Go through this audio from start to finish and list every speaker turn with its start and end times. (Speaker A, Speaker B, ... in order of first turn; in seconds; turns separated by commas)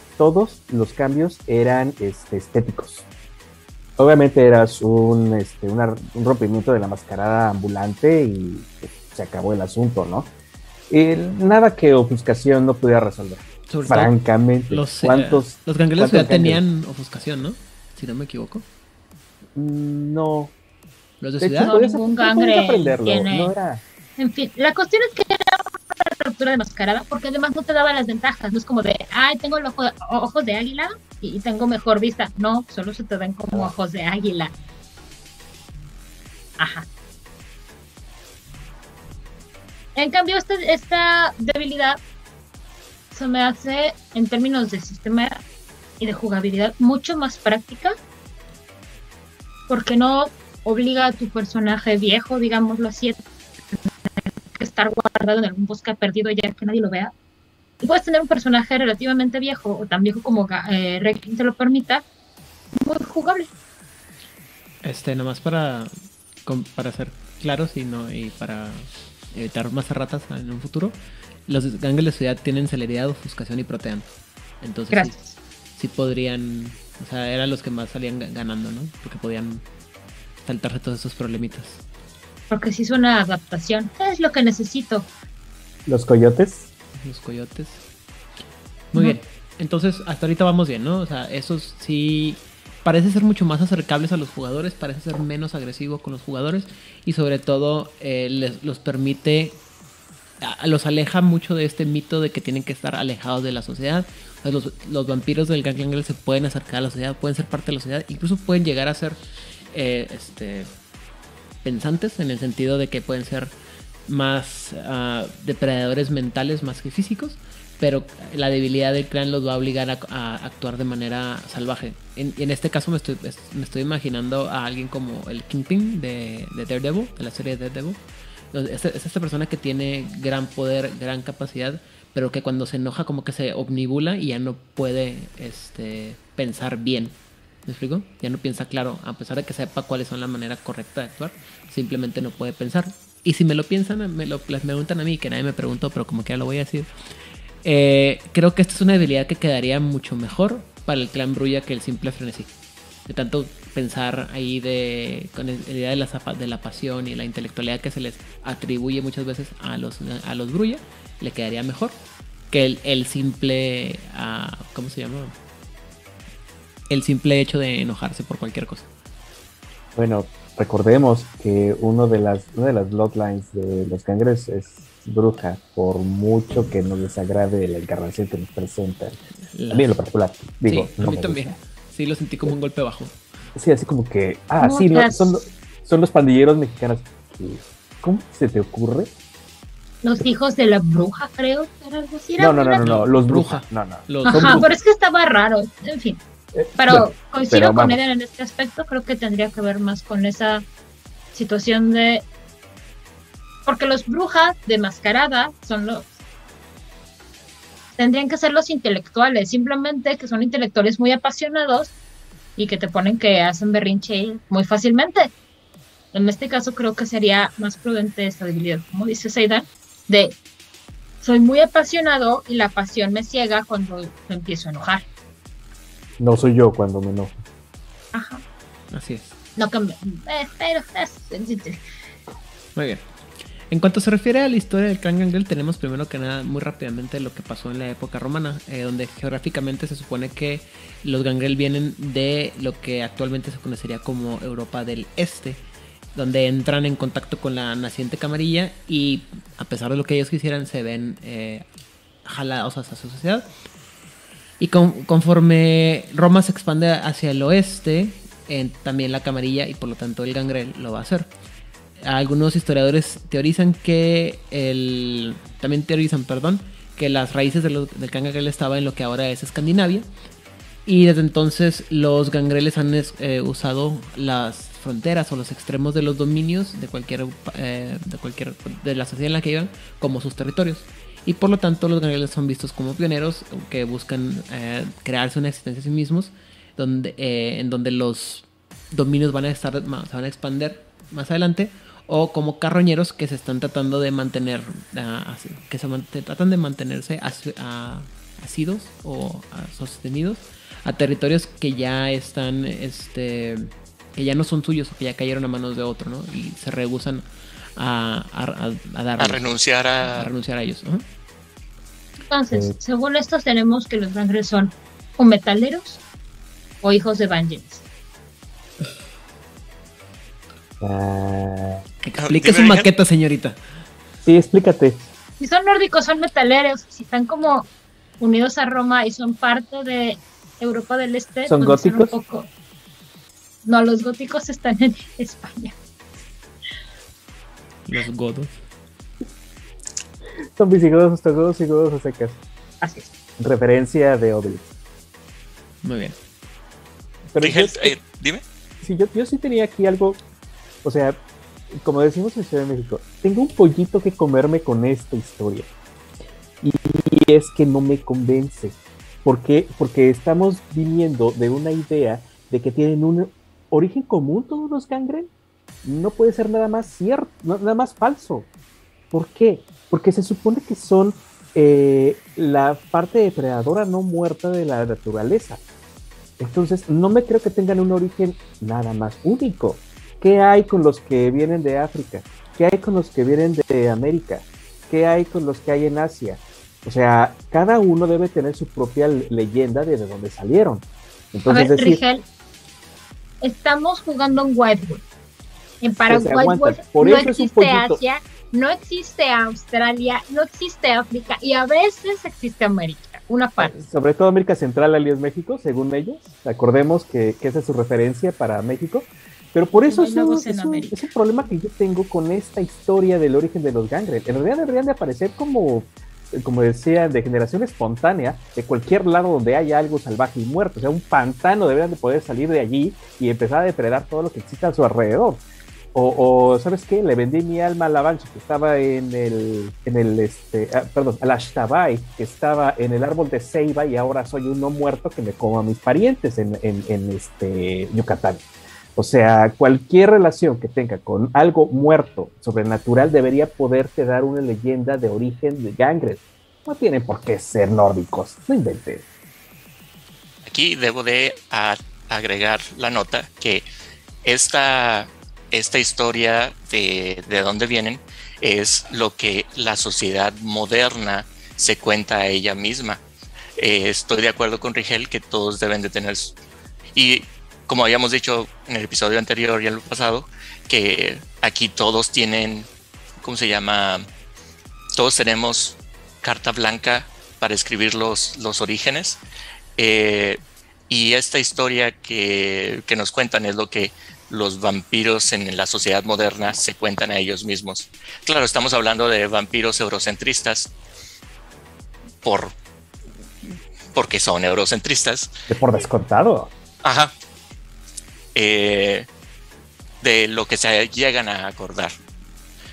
Speaker A: 0.2-3.1, Speaker A: 4.0-10.3, Speaker A: 10.9-16.6, Speaker B: 13.7-14.2, Speaker B: 14.7-18.6, Speaker A: 19.6-20.5, Speaker B: 21.2-21.8, Speaker A: 21.4-23.8, Speaker C: 21.6-23.5, Speaker C: 24.2-34.5, Speaker C: 36.6-36.9, Speaker C: 40.0-42.0, Speaker C: 43.1-45.4, Speaker C: 46.0-48.0, Speaker C: 49.7-53.2, Speaker C: 54.5-57.1, Speaker C: 57.8-62.0, Speaker C: 62.8-63.5, Speaker B: 64.8-65.9, Speaker B: 66.5-71.0, Speaker B: 71.5-74.1, Speaker B: 74.6-75.2, Speaker C: 74.9-75.3, Speaker B: 75.8-79.6, Speaker B: 80.4-81.8, Speaker C: 82.5-85.1, Speaker A: 85.9-86.7, Speaker B: 87.0-87.8, Speaker B: 88.9-99.6, Speaker B: 100.4-109.2, Speaker B: 109.7-110.7, Speaker B: 111.6-113.5, Speaker B: 114.1-128.0, Speaker B: 128.5-146.9, Speaker B: 147.6-152.5, Speaker B: 153.1-162.0, Speaker B: 162.5-165.3, Speaker B: 166.9-168.9, Speaker A: 170.0-179.2, Speaker B: 179.5-180.0, Speaker A: 179.7-181.6, Speaker B: 180.7-183.2, Speaker A: 183.6-189.1, Speaker C: 184.6-185.5, Speaker C: 190.0-192.9, Speaker A: 192.4-194.7, Speaker B: 192.8-194.7, Speaker C: 194.3-196.2, Speaker A: 196.5-198.0, Speaker C: 196.8-200.7, Speaker C: 201.3-202.2, Speaker C: 203.7-206.1, Speaker C: 208.0-211.9, Speaker C: 212.6-215.3, Speaker C: 216.1-220.3, Speaker C: 221.2-225.0, Speaker A: 226.2-227.4, Speaker C: 228.1-228.4, Speaker B: 228.9-229.3, Speaker C: 229.6-231.8, Speaker B: 232.8-233.1, Speaker B: 233.7-245.6, Speaker B: 246.2-251.7, Speaker B: 252.2-253.5, Speaker B: 254.6-261.3, Speaker B: 262.0-270.1, Speaker B: 270.9-309.5, Speaker D: 309.2-310.3, Speaker B: 310.0-311.1, Speaker C: 312.3-316.0, Speaker C: 316.8-317.8, Speaker A: 320.8-321.8, Speaker B: 322.0-323.6, Speaker D: 322.2-322.9, Speaker A: 324.2-325.1, Speaker C: 325.4-327.7, Speaker C: 328.2-332.5, Speaker A: 331.5-332.2, Speaker C: 333.6-335.8, Speaker B: 337.9-338.6, Speaker A: 340.6-342.4, Speaker C: 342.8-343.1, Speaker A: 343.4-344.7, Speaker B: 345.8-346.2, Speaker A: 347.3-348.0, Speaker D: 347.4-348.4, Speaker A: 348.8-350.2, Speaker A: 350.8-351.2, Speaker A: 351.7-355.7, Speaker A: 356.6-365.3, Speaker A: 365.8-368.5, Speaker A: 369.1-375.6, Speaker A: 376.4-392.0, Speaker C: 391.5-392.2, Speaker C: 393.4-395.0, Speaker C: 395.8-403.7, Speaker A: 396.0-398.0, Speaker A: 403.6-425.4, Speaker C: 409.9-411.0, Speaker A: 425.9-438.4, Speaker A: 439.0-449.1, Speaker D: 450.4-453.7, Speaker D: 454.2-463.0, Speaker D: 463.6-466.4, Speaker D: 466.9-472.7, Speaker D: 473.2-474.0, Speaker D: 475.0-479.2, Speaker D: 479.8-490.7, Speaker D: 492.2-492.6, Speaker D: 493.9-495.3, Speaker A: 495.5-496.5, Speaker D: 496.8-497.1, Speaker D: 498.4-499.1, Speaker D: 500.0-501.9